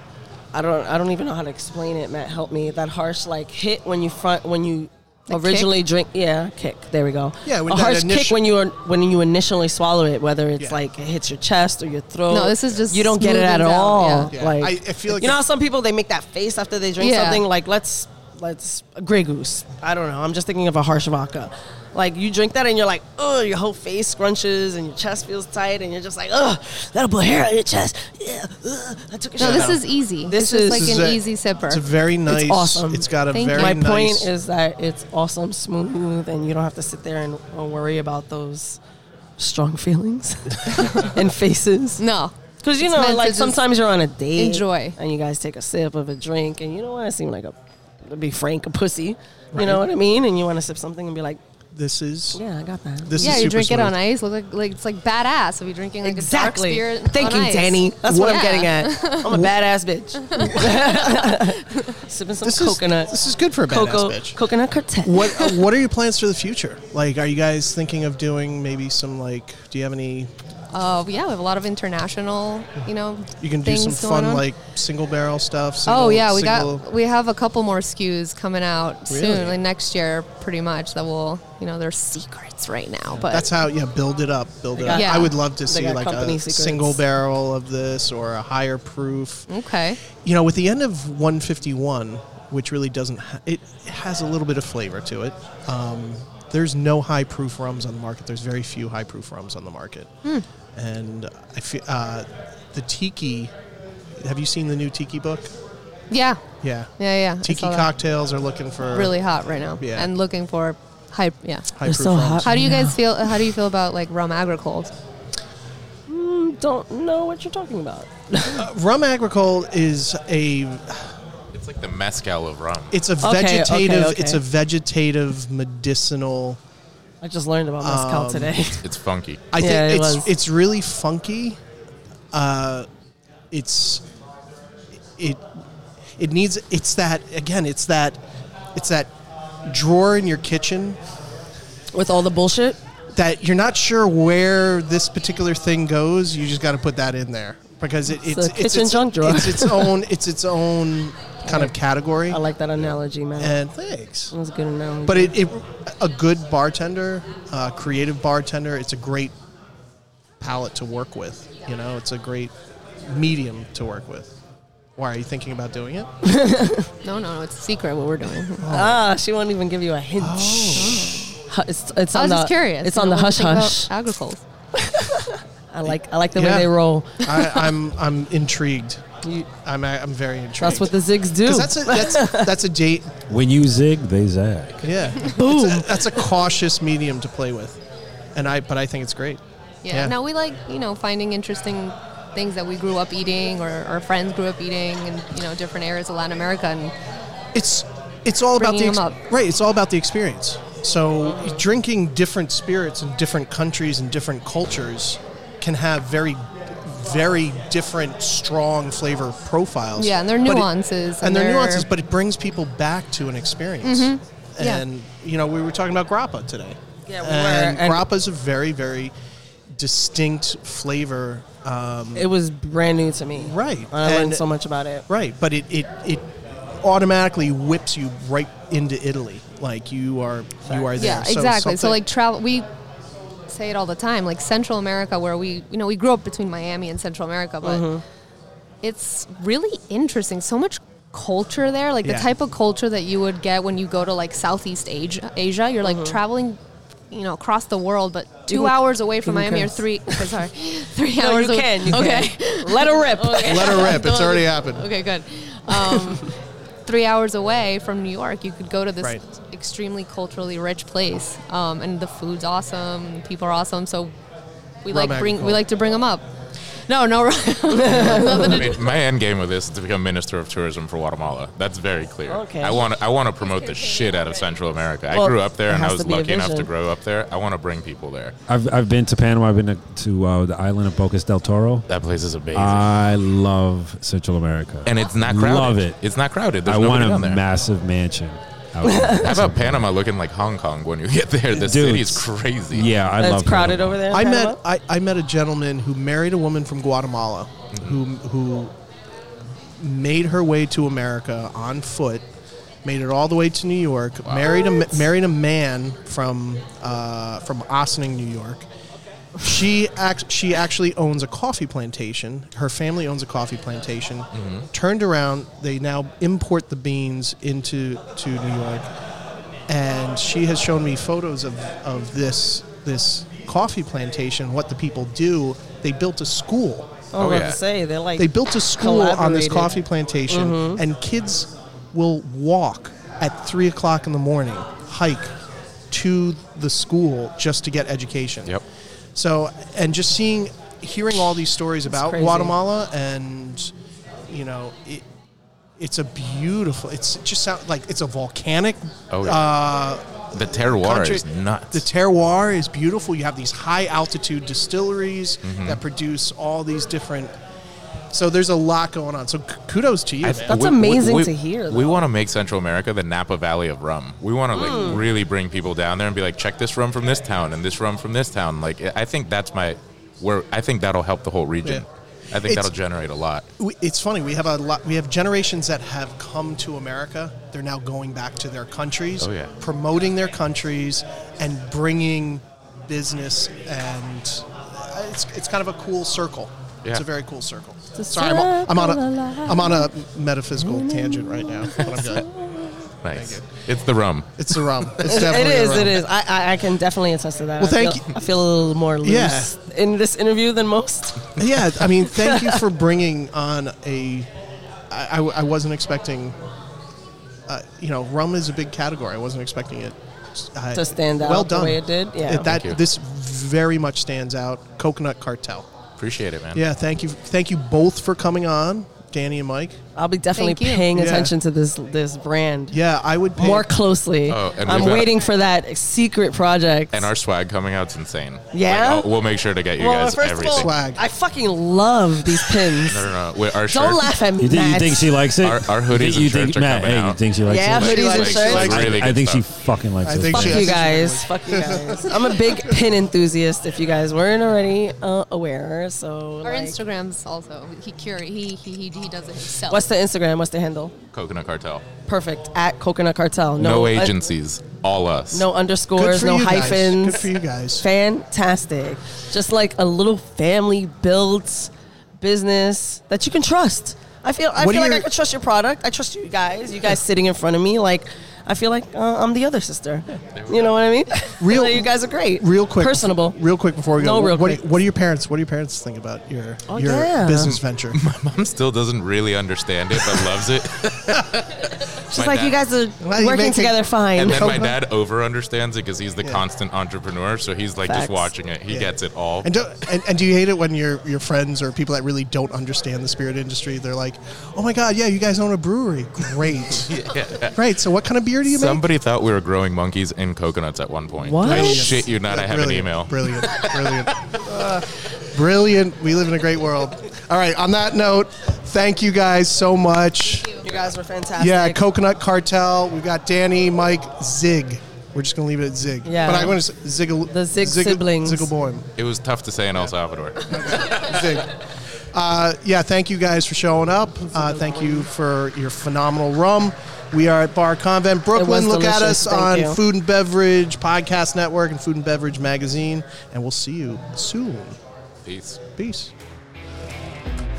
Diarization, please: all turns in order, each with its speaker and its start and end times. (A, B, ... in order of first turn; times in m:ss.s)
0:00.5-0:31.0 A
0:05.3-0:05.7 B
0:07.4-0:08.5 C
0:12.3-0:14.3 B
0:14.3-0:15.4 C
0:17.0-0:17.4 B
0:29.4-0:29.8 C
0:29.4-0:31.8 B
0:30.6-0:34.3 C
0:32.3-0:38.8 A
0:33.3-0:33.8 B
0:39.4-0:42.0 A
0:42.0-0:43.6 B
0:42.6-0:51.4 A
0:44.3-0:45.0 B
0:49.5-0:49.8 C
0:51.7-0:52.4 C
0:52.3-0:53.5 A
0:53.0-0:54.0 C
0:53.2-0:59.4 B
0:56.0-1:05.5 A
0:58.0-0:58.5 C
1:00.2-1:01.4 B
1:02.4-1:04.4 C
1:05.0-1:10.3 C
1:10.7-1:14.4 B
1:13.4-1:16.8 C
1:15.8-1:23.5 B
1:19.1-1:19.6 C
1:23.1-1:29.5 C
1:24.8-1:27.0 A
1:24.9-1:25.3 B
1:29.5-1:30.0 B
1:30.2-1:40.1 C
1:40.7-1:43.5 C
1:44.2-1:45.5 C
1:46.1-1:46.4 B
1:46.6-1:49.1 C
1:47.0-1:47.9 B
1:48.9-1:51.7 B
1:49.8-1:50.1 C
1:51.7-1:52.7 C
1:51.8-1:53.0 A
1:52.4-1:54.9 B
1:56.1-1:58.6 A
1:58.5-2:01.1 C
2:01.5-2:03.0 D
2:02.9-2:06.6 C
2:03.2-2:04.4 A
2:07.2-2:08.8 A
2:07.8-2:08.6 C
2:08.8-2:09.5 D
2:09.5-2:11.6 C
2:09.6-2:10.3 A
2:12.3-2:12.9 C
2:13.5-2:14.0 C
2:15.2-2:15.4 C
2:16.2-2:18.2 C
2:18.7-2:19.1 C
2:19.6-2:21.0 C
2:21.9-2:22.8 A
2:23.1-2:32.4 C
2:28.2-2:30.0 A
2:31.4-2:31.7 A
2:32.3-2:33.6 A
2:33.4-2:34.3 C
2:34.3-2:35.3 A
2:35.0-2:39.3 C
2:40.4-2:44.3 C
2:45.0-2:46.1 C
2:46.2-2:46.9 A
2:47.0-2:48.7 B
2:48.6-2:49.0 C
2:48.6-2:53.9 A
2:50.2-2:51.2 C
2:50.8-2:51.3 B
2:52.1-2:54.4 B
2:54.8-2:57.7 A
2:55.8-3:03.2 C
3:00.6-3:02.5 A
3:03.3-3:04.8 E
3:04.8-3:07.8 C
3:05.3-3:06.1 A
3:08.3-3:10.1 C
3:09.8-3:16.9 B
3:17.5-3:39.1 C
3:18.6-3:19.2 B
3:30.0-3:31.9 B
3:33.8-3:34.8 B
3:37.1-3:38.0 A
3:39.7-3:42.3 C
3:42.1-3:45.0 A
3:43.3-3:44.4 C
3:45.1-3:46.2 C
3:46.8-3:52.0 C
3:51.0-3:52.7 B
3:53.5-3:57.8 B
3:57.6-3:58.0 A
3:58.8-4:06.6 B
4:02.0-4:02.3 C
4:05.8-4:06.2 A
4:07.1-4:16.3 B
4:08.5-4:10.3 A
4:11.2-4:14.0 A
4:13.4-4:14.8 C
4:15.7-4:16.3 A
4:16.8-4:24.1 B
4:24.8-4:26.2 B
4:24.9-4:25.6 C
4:26.9-4:28.8 B
4:27.7-4:28.7 A
4:28.3-4:38.3 D
4:32.3-4:32.8 A
4:35.1-4:36.7 A
4:38.5-4:41.8 E
4:41.9-4:42.9 D
4:42.5-4:46.0 E
4:44.8-4:47.4 D
4:46.6-4:49.8 E
4:48.8-4:49.2 A
4:49.2-4:52.9 D
4:51.5-4:54.0 E
4:53.2-4:54.6 A
4:54.1-4:58.7 C
4:57.7-4:58.0 D
4:59.8-5:02.2 C
5:02.8-5:08.7 C
5:04.3-5:04.7 D
5:09.4-5:18.9 C
5:14.3-5:14.7 D
5:19.7-5:26.9 C
5:27.1-5:29.7 A
5:27.2-5:27.6 D
5:28.2-5:35.3 C
5:30.3-5:30.8 A
5:35.9-5:38.6 C
5:39.1-5:43.7 C
5:41.9-5:42.6 A
5:44.3-5:45.0 C
5:45.8-5:57.3 C
5:49.1-5:49.4 D
5:50.3-5:51.8 D
5:55.4-5:55.8 D
5:58.1-6:00.6 C
6:00.2-6:13.5 D
6:00.5-6:02.0 A
6:04.5-6:05.0 A
6:12.4-6:12.7 C
6:13.6-6:32.3 C
6:19.2-6:19.5 D
6:28.0-6:29.9 A
6:30.6-6:32.9 A
6:33.0-6:34.3 D
6:33.1-6:33.4 C
6:34.4-6:36.0 C
6:35.0-6:41.4 A
6:37.6-6:38.2 C
6:39.0-6:39.5 C
6:41.4-6:44.3 C
6:42.0-6:42.6 A
6:44.9-6:46.4 C
6:47.5-6:55.7 C
6:50.7-6:52.5 A
6:52.5-6:52.8 D
6:56.0-6:56.6 D
6:56.5-6:59.8 C
6:59.9-7:02.8 A
7:00.4-7:00.9 B
7:00.9-7:01.3 C
7:02.7-7:03.7 C
7:03.4-7:07.1 A
7:04.3-7:05.1 D
7:04.7-7:05.0 C
7:06.9-7:10.7 D
7:08.5-7:09.1 A
7:09.8-7:13.1 A
7:10.5-7:11.0 C
7:12.7-7:14.1 D
7:13.7-7:15.2 A
7:14.4-7:20.7 E
7:15.4-7:19.4 D
7:17.4-7:19.0 A
7:18.4-7:19.1 C
7:20.0-7:22.8 C
7:20.3-7:26.8 A
7:26.4-7:29.9 B
7:29.7-7:30.9 A
7:31.1-7:31.8 D
7:32.1-7:34.2 A
7:33.6-7:35.5 D
7:35.3-7:53.3 A
7:35.9-7:37.9 C
7:44.6-7:45.1 C
7:50.3-7:50.8 D
7:51.4-7:58.0 C
7:54.0-7:54.7 A
7:56.7-7:57.6 A
7:57.9-8:02.6 D
8:02.1-8:04.7 A
8:03.0-8:04.8 C
8:04.1-8:09.5 D
8:07.8-8:08.3 A
8:08.7-8:18.9 C
8:16.9-8:17.5 D
8:18.4-8:24.5 D
8:21.2-8:21.9 A
8:21.4-8:30.6 C
8:30.6-8:31.8 A
8:31.4-8:38.9 C
8:36.0-8:36.6 A
8:37.3-8:38.5 A
8:39.0-8:41.3 D
8:40.5-8:41.6 C
8:42.1-8:54.8 C
8:44.3-8:45.0 A
8:48.3-8:49.8 A
8:55.2-8:55.6 D
8:55.8-8:56.1 C